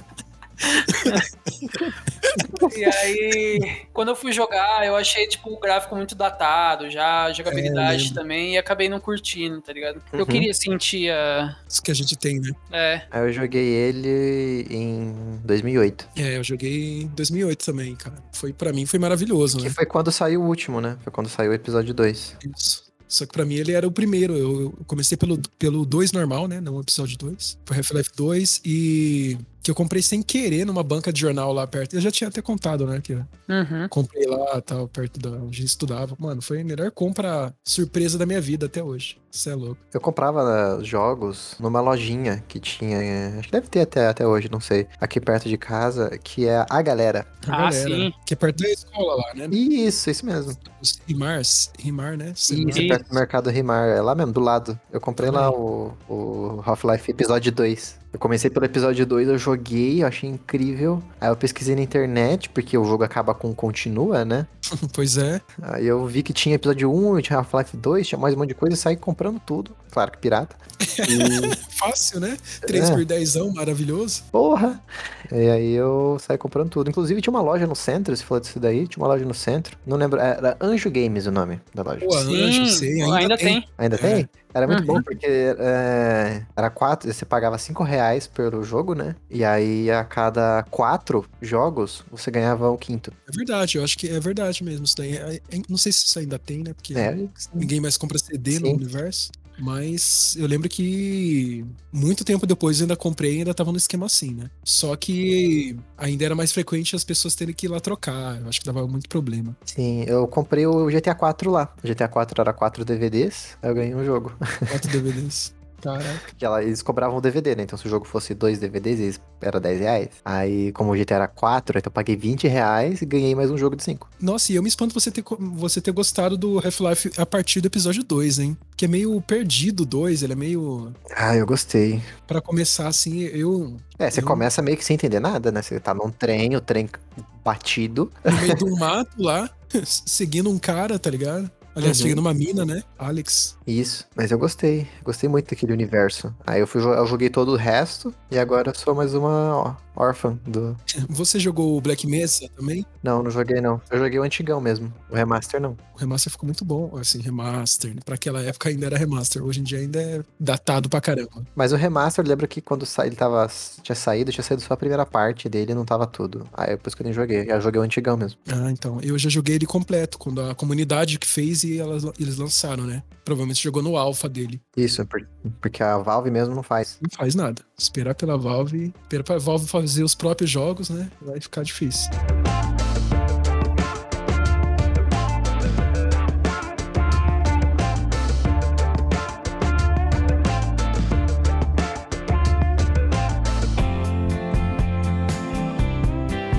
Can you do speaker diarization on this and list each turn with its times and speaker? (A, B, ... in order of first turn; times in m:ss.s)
0:00.6-0:01.2 A
0:00.9-0:02.5 B
0:02.6-0:11.6 A
0:07.4-0:08.2 B
0:10.1-0:10.5 C
0:11.7-0:12.6 B
0:12.7-0:13.0 A
0:13.1-0:16.1 C
0:16.1-0:19.8 B
0:19.5-0:22.4 C
0:22.4-0:33.3 B
0:33.5-0:33.9 A
0:33.9-0:39.8 B
0:39.9-0:47.3 C
0:47.4-0:49.6 B
0:47.5-0:48.1 A
0:49.5-0:50.6 C
0:50.7-0:53.2 B
0:52.5-1:04.5 C
0:52.6-0:53.0 A
0:55.2-0:55.6 B
1:04.7-1:05.4 B
1:05.6-1:11.6 C
1:10.8-1:14.2 B
1:12.6-1:13.0 C
1:14.3-1:22.2 C
1:22.0-1:24.3 B
1:22.3-1:23.6 A
1:23.8-1:33.1 C
1:24.7-1:25.0 A
1:33.3-1:49.6 B
1:36.9-1:37.7 C
1:38.5-1:38.8 C
1:49.7-1:54.9 C
1:54.7-1:56.2 B
1:56.2-2:04.1 C
2:04.2-2:11.0 B
2:11.1-2:12.1 C
2:12.3-2:14.4 B
2:14.0-2:18.6 C
2:18.3-2:23.6 B
2:21.8-2:22.2 C
2:23.7-2:30.8 C
2:31.0-2:32.9 B
2:33.0-2:35.8 C
2:36.0-2:41.5 B
2:41.6-2:48.4 C
2:48.5-2:54.6 B
2:54.8-2:57.0 C
2:57.0-3:02.1 B